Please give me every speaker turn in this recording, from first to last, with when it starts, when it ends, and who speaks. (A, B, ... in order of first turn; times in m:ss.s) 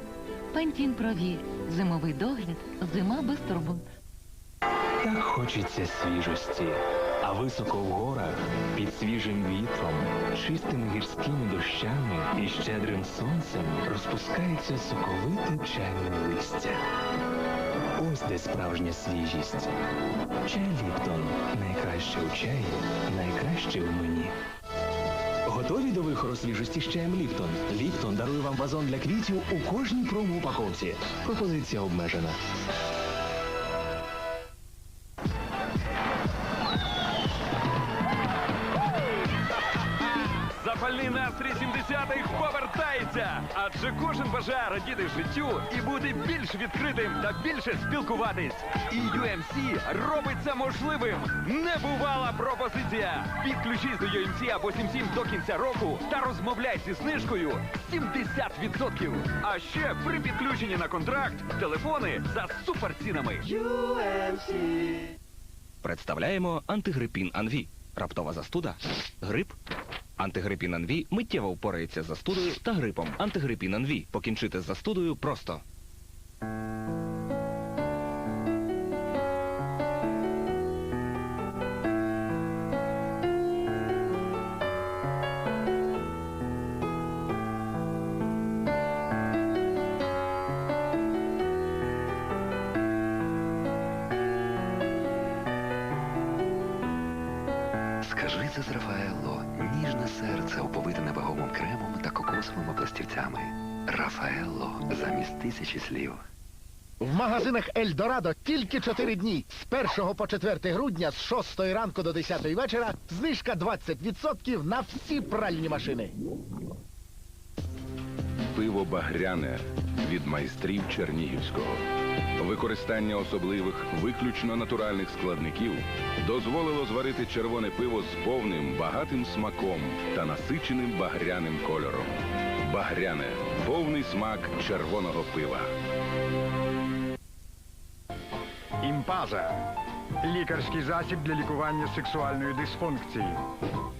0:00.5-0:03.8 A
0:05.0-0:16.8 B
0:18.0-0:19.7 B
0:20.4-0:24.4 B
0:25.4-0:32.4 B
0:40.5-1:04.2 C
1:05.8-1:09.6 D
1:10.2-1:15.6 D
1:38.0-1:46.2 E
1:47.0-1:56.1 F
1:58.5-2:01.8 G
2:02.4-2:12.2 G
2:12.7-2:15.7 G
2:18.8-2:19.6 H
2:20.2-2:23.4 H